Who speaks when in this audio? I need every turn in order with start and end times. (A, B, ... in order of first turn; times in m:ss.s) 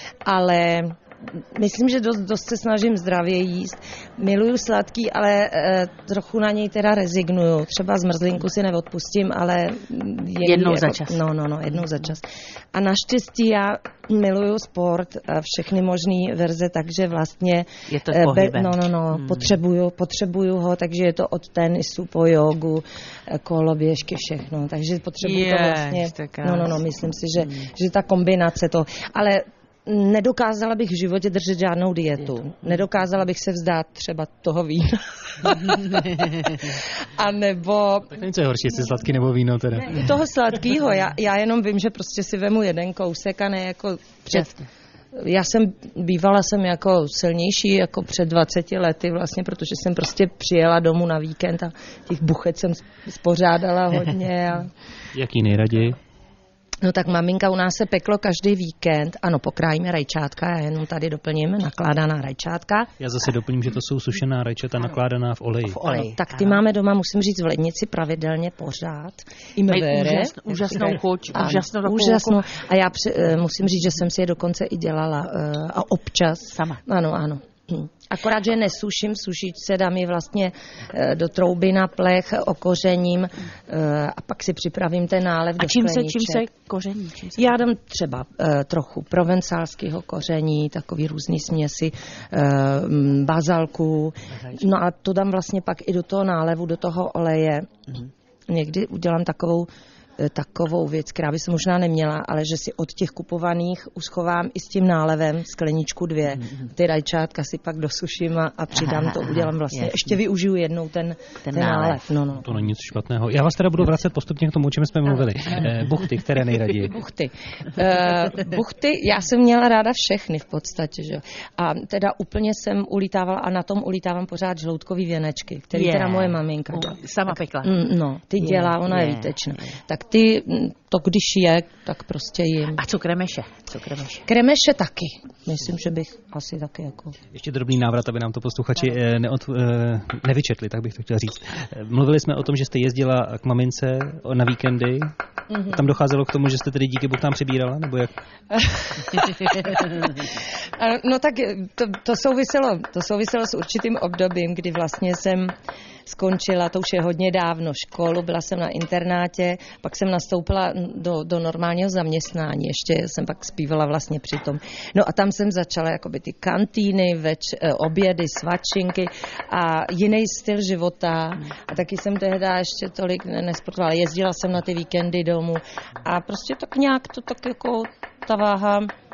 0:00.2-0:38.2 A
0:10.4-0:11.2 B
0:17.9-0:19.6 B
0:25.2-0:26.8 B
0:38.1-0:40.2 C
0:39.8-0:44.6 A
0:45.2-0:54.7 A
0:55.1-0:56.0 C
0:56.8-1:02.9 A
1:03.0-1:05.8 C
1:05.7-1:06.6 B
1:05.8-1:26.4 A
1:09.7-1:12.4 B
1:16.5-1:16.8 B
1:25.6-1:27.5 B
1:27.4-1:37.7 A
1:38.5-1:52.5 A
1:48.8-1:50.2 B
1:51.5-1:52.0 B
1:52.4-1:57.0 C
1:56.8-2:12.8 A
2:05.7-2:07.8 B
2:08.4-2:09.7 B
2:12.8-2:14.2 B
2:14.3-2:17.2 A
2:17.3-2:25.1 C
2:25.5-2:25.8 A
2:25.6-2:28.1 C
2:28.5-2:35.5 A
2:36.1-2:58.9 A